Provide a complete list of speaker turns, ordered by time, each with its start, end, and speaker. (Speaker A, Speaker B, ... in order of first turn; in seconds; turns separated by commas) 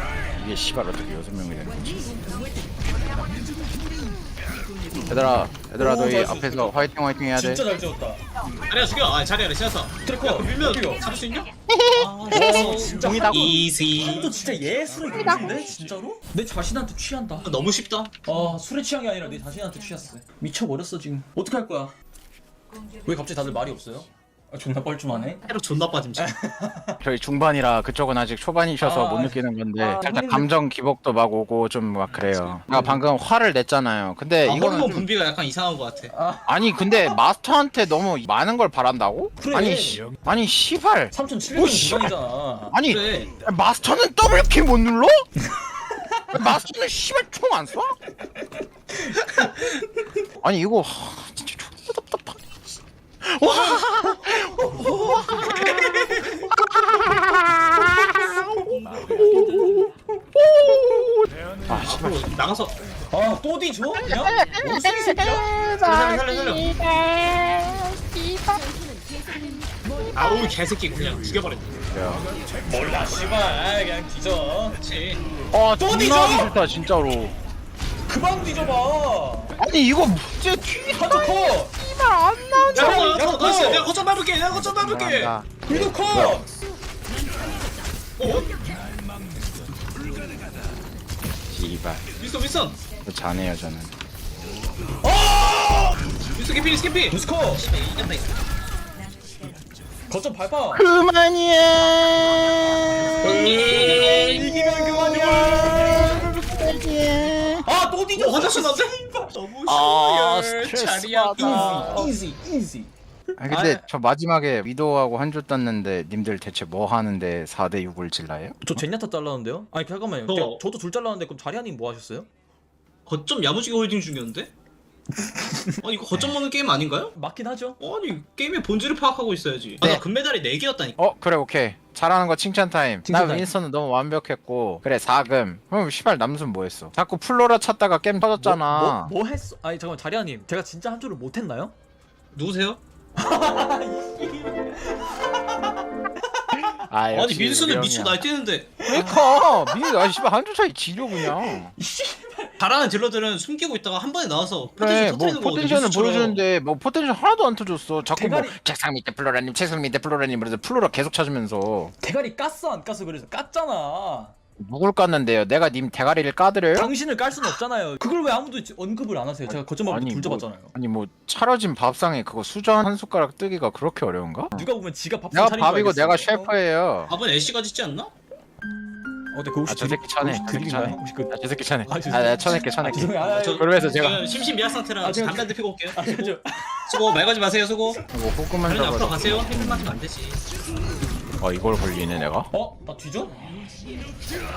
Speaker A: 0.3-1.8, Speaker A: 5.1-7.6, Speaker B: 5.8-8.2, Speaker C: 8.7-14.3, Speaker B: 10.0-11.0, Speaker A: 11.7-13.6, Speaker B: 12.3-17.5, Speaker A: 15.1-15.6, Speaker C: 17.4-18.1, Speaker B: 18.2-21.9, Speaker B: 23.0-25.4, Speaker C: 25.4-26.3, Speaker B: 26.1-27.0, Speaker A: 27.0-35.0, Speaker B: 28.8-30.5, Speaker B: 32.7-33.0, Speaker C: 34.4-36.1, Speaker B: 36.1-37.1, Speaker A: 36.5-42.1, Speaker B: 39.4-40.0, Speaker B: 41.1-42.8, Speaker A: 42.7-45.3, Speaker C: 42.9-43.3, Speaker A: 46.3-48.0, Speaker A: 50.4-58.5, Speaker C: 53.4-53.8, Speaker B: 54.1-56.5, Speaker C: 55.4-56.2, Speaker B: 58.1-60.0, Speaker A: 59.2-62.3, Speaker C: 61.7-62.8, Speaker B: 63.1-65.5, Speaker A: 64.0-68.6, Speaker C: 65.8-66.7, Speaker C: 70.1-71.7, Speaker A: 71.9-72.2, Speaker B: 72.6-74.8, Speaker C: 74.8-75.2, Speaker A: 75.5-77.3, Speaker B: 75.8-76.6, Speaker B: 78.1-79.6, Speaker A: 79.6-83.1, Speaker B: 80.9-81.7, Speaker C: 82.7-85.3, Speaker B: 82.7-83.9, Speaker A: 84.5-86.4, Speaker B: 85.7-86.5, Speaker C: 88.2-88.5, Speaker A: 91.5-92.0, Speaker C: 92.2-92.8, Speaker A: 93.0-93.9, Speaker B: 95.0-95.9, Speaker C: 96.3-98.3, Speaker B: 97.1-97.7, Speaker B: 100.1-100.8, Speaker A: 100.7-107.7, Speaker C: 103.2-104.5, Speaker B: 103.2-106.3, Speaker B: 107.6-109.3, Speaker C: 108.1-112.1, Speaker A: 109.7-112.1, Speaker B: 111.3-113.8, Speaker A: 113.4-118.8, Speaker B: 118.6-122.3, Speaker C: 120.3-120.6, Speaker C: 123.1-124.5, Speaker B: 125.2-125.8, Speaker C: 125.8-127.1, Speaker B: 127.1-127.8, Speaker C: 127.8-131.0, Speaker A: 131.0-139.1, Speaker B: 133.0-133.5, Speaker B: 138.4-141.7, Speaker C: 142.3-142.8, Speaker B: 143.2-145.8, Speaker B: 146.4-146.7, Speaker A: 146.8-148.2, Speaker C: 147.1-148.9, Speaker B: 148.8-150.1, Speaker A: 148.8-151.7, Speaker B: 151.1-152.6, Speaker C: 152.6-156.4, Speaker A: 154.8-161.9, Speaker B: 158.1-158.6, Speaker B: 162.0-164.3, Speaker A: 164.6-166.9, Speaker B: 166.7-170.7, Speaker A: 169.5-174.7, Speaker B: 174.5-176.5, Speaker A: 175.3-177.1, Speaker C: 177.1-178.1, Speaker B: 179.3-183.8, Speaker A: 179.7-184.3, Speaker C: 183.2-186.3, Speaker B: 185.0-187.1, Speaker C: 186.9-188.0, Speaker A: 188.1-189.9, Speaker C: 188.7-190.4, Speaker A: 191.4-192.5, Speaker B: 192.5-193.6